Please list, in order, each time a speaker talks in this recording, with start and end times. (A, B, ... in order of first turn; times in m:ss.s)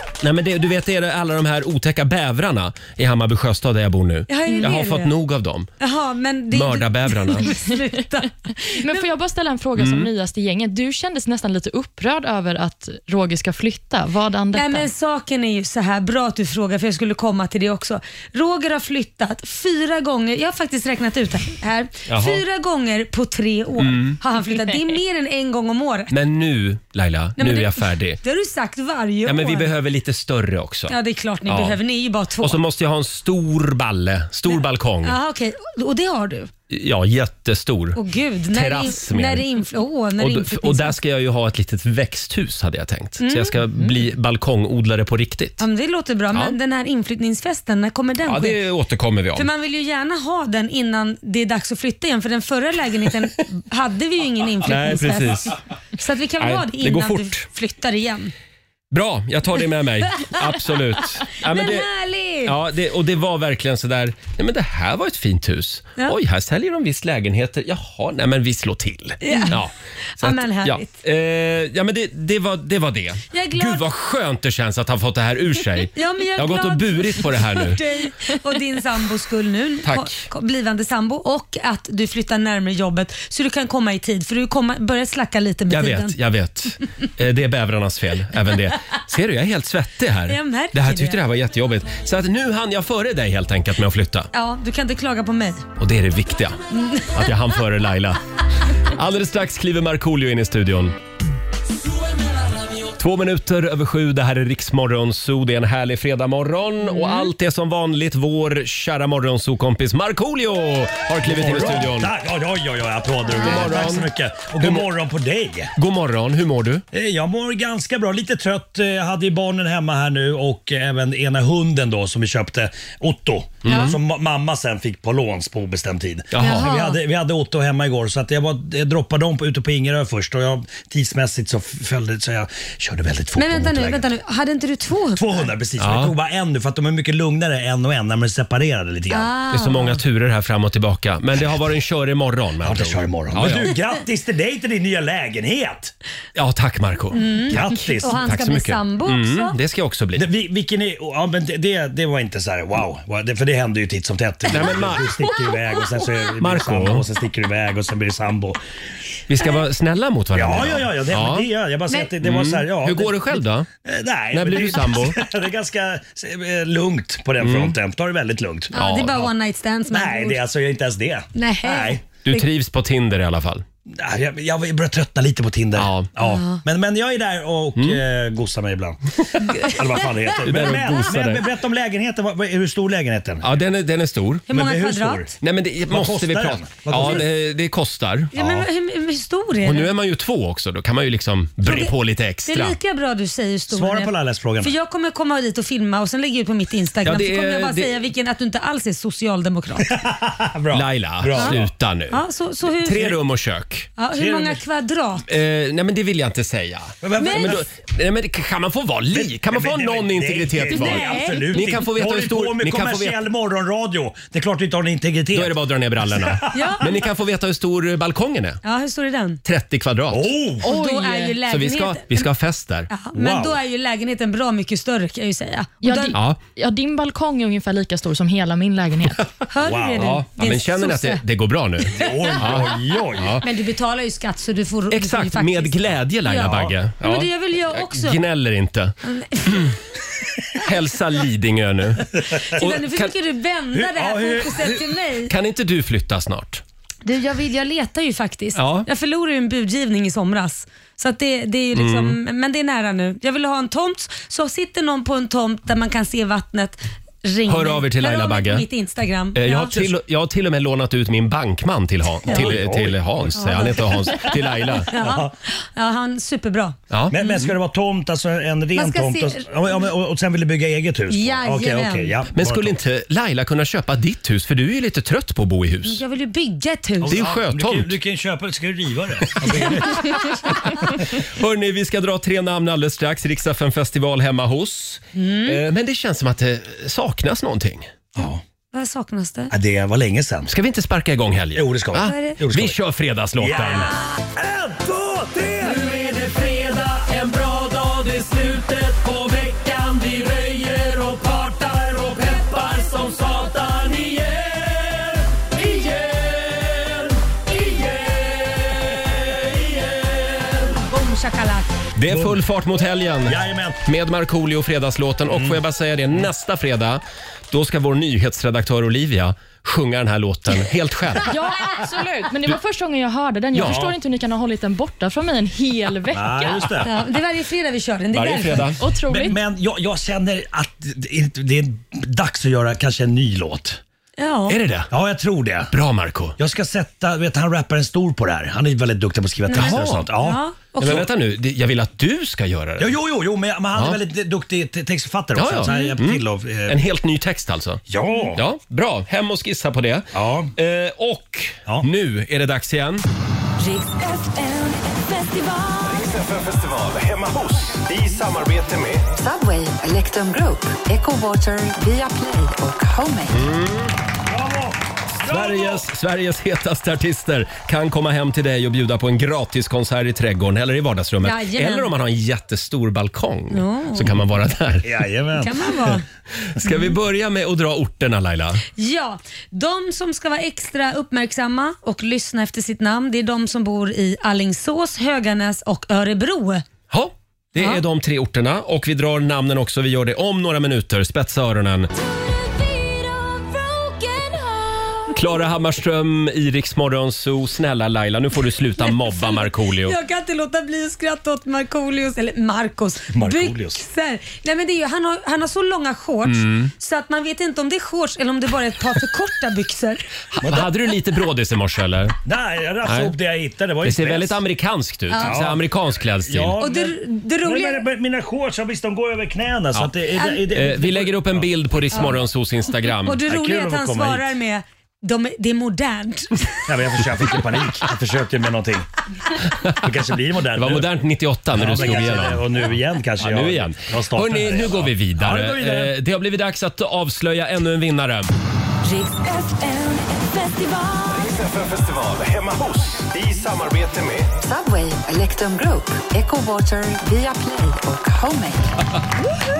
0:00.2-0:05.7 A
0:04.3-0:05.1 B
0:05.8-0:09.0 B
0:06.5-0:07.5 A
0:08.7-0:14.9 C
0:09.8-0:10.1 A
0:14.5-0:26.2 B
0:22.1-0:22.4 A
0:23.8-0:24.2 A
0:26.1-0:28.2 A
0:27.4-0:29.7 B
0:29.2-0:31.8 A
0:30.9-0:32.6 B
0:32.4-0:35.2 A
0:34.5-0:36.5 B
0:36.7-0:39.5 A
0:38.0-0:41.0 B
0:40.2-0:45.6 A
0:43.2-0:43.6 B
0:45.6-0:48.6 B
0:48.2-0:49.5 A
0:49.4-0:58.3 B
0:54.6-0:55.6 A
0:56.4-0:57.5 A
0:58.9-1:01.9 A
1:01.3-1:02.6 B
1:02.4-1:17.8 A
1:09.2-1:09.6 B
1:10.2-1:10.9 B
1:13.3-1:13.8 B
1:15.9-1:26.2 B
1:19.8-1:20.2 A
1:25.7-1:34.3 A
1:30.3-1:31.2 B
1:34.3-1:35.7 B
1:35.8-1:38.2 A
1:36.7-1:37.4 B
1:38.8-1:41.0 A
1:42.9-1:52.1 A
1:46.9-1:47.3 B
1:51.2-1:55.7 D
1:53.4-1:54.9 A
1:55.8-1:56.8 A
1:56.9-2:14.0 D
2:03.6-2:04.0 A
2:03.7-2:03.9 B
2:06.3-2:06.7 A
2:06.4-2:07.0 B
2:13.4-2:15.5 B
2:15.2-2:19.3 D
2:15.8-2:16.1 A
2:19.1-2:20.0 B
2:19.5-2:23.8 A
2:22.6-2:25.9 D
2:26.4-2:30.3 A
2:27.1-2:29.6 B
2:27.5-2:28.3 D
2:30.2-2:38.6 D
2:34.5-2:35.3 A
2:36.4-2:37.0 A
2:39.3-2:41.5 A
2:40.3-2:48.7 D
2:42.2-2:43.7 A
2:44.3-2:45.2 A
2:47.4-2:47.8 A
2:48.7-2:50.4 B
2:48.7-2:49.3 A
2:49.9-2:52.0 D
2:51.4-2:52.5 B
2:52.3-2:53.6 A
2:53.9-3:03.5 D
2:55.8-2:56.1 A
2:56.2-2:56.6 B
2:57.8-2:58.0 A
3:00.4-3:01.5 A
3:03.4-3:04.5 A
3:04.5-3:05.3 B
3:04.5-3:05.4 D
3:05.4-3:08.4 A
3:05.9-3:07.3 D
3:08.3-3:09.9 B
3:08.4-3:08.7 D
3:09.6-3:12.8 A
3:11.6-3:11.9 B
3:12.4-3:20.0 B
3:13.7-3:14.7 D
3:17.0-3:18.0 A
3:19.9-3:21.7 D
3:20.7-3:23.9 A
3:22.1-3:23.2 B
3:24.0-3:25.3 B
3:24.1-3:24.6 D
3:25.3-3:33.2 A
3:27.0-3:27.6 D
3:27.2-3:27.6 B
3:29.1-3:36.7 D
3:30.7-3:31.8 B
3:35.3-3:38.6 A
3:36.5-3:36.9 B
3:38.6-3:39.4 B
3:39.4-3:40.4 A
3:40.1-3:40.7 D
3:40.6-3:41.4 C
3:40.6-3:42.2 B
3:41.5-3:42.9 A
3:42.9-3:46.2 B
3:43.2-3:43.6 D
3:45.8-3:49.2 C
3:46.1-3:46.4 A
3:49.5-3:51.2 B
3:49.6-3:50.2 D
3:50.0-3:53.4 A
3:51.9-3:53.4 D
3:53.4-3:58.2 B
3:54.9-3:59.8 A
3:59.0-3:59.7 B
4:00.6-4:03.1 A
4:02.5-4:05.3 B
4:03.7-4:04.9 D
4:05.3-4:06.6 A
4:07.0-4:19.8 B
4:08.6-4:08.9 A
4:11.7-4:12.2 A
4:17.5-4:18.7 A
4:19.3-4:24.9 A
4:22.3-4:22.6 B
4:22.3-4:23.8 D
4:23.4-4:24.3 B
4:24.9-4:27.4 B
4:24.9-4:25.3 D
4:26.9-4:27.5 A
4:27.1-4:32.8 D
4:28.8-4:29.9 B
4:31.1-4:32.2 B
4:32.3-4:36.0 A
4:35.8-4:37.2 B
4:37.0-4:41.0 D
4:37.0-4:38.0 A
4:41.1-4:47.9 A
4:45.2-4:45.6 B
4:48.2-4:48.4 D
4:48.7-4:49.5 B
4:49.5-4:50.5 D
4:50.5-4:54.0 A
4:51.6-4:52.8 D
4:52.0-4:52.4 B
4:53.4-4:55.8 D
4:55.6-5:10.8 A
5:10.9-5:11.7 B
5:12.0-5:21.3 A
5:12.1-5:12.4 D
5:13.2-5:13.8 D
5:15.3-5:15.6 D
5:21.3-5:26.8 C
5:23.5-5:23.8 A
5:23.6-5:23.9 D
5:26.1-5:26.9 D
5:26.8-5:28.8 B
5:28.1-5:28.8 A
5:28.8-5:29.4 C
5:29.1-5:33.8 D
5:34.2-5:34.6 B
5:34.5-5:34.9 A
5:34.9-5:35.7 D
5:35.7-5:36.4 A
5:36.4-5:41.1 D
5:39.5-5:41.1 B
5:39.5-5:40.1 A
5:40.8-5:43.0 A
5:42.8-5:46.8 D
5:43.8-5:44.0 A
5:45.3-5:47.8 A
5:45.7-5:45.9 B
5:47.9-5:48.4 D
5:48.3-5:53.0 A
5:50.2-5:50.5 D
5:53.6-5:56.2 E
5:56.2-5:59.0 F
5:59.2-6:03.5 E
6:03.3-6:04.0 A
6:04.3-6:05.8 D
6:05.2-6:15.0 A
6:11.2-6:11.9 B
6:13.5-6:14.2 B
6:14.8-6:16.0 D
6:15.4-6:16.0 B
6:16.6-6:18.6 A
6:18.8-6:26.6 B
6:26.9-6:31.9 A
6:27.6-6:27.8 B
6:32.5-6:35.2 B
6:32.7-6:33.2 E
6:35.1-6:40.0 A
6:38.8-6:50.1 B
6:43.1-6:43.8 D
6:46.2-6:46.7 A
6:50.3-6:52.2 A
6:50.4-6:50.7 D
6:52.2-6:54.4 D
6:52.8-6:53.2 A
6:53.8-6:56.6 A
6:55.1-6:55.4 B
6:55.2-6:55.7 D
6:56.2-7:02.1 D
6:56.6-6:57.9 B
7:00.2-7:00.4 B
7:00.5-7:03.2 A
7:01.9-7:02.2 B
7:03.0-7:06.6 B
7:03.3-7:04.3 D
7:06.7-7:08.9 D
7:09.6-7:10.9 D
7:10.5-7:18.3 A
7:11.5-7:15.9 D
7:18.8-7:21.5 E
7:21.4-7:24.2 F
7:24.4-7:28.8 E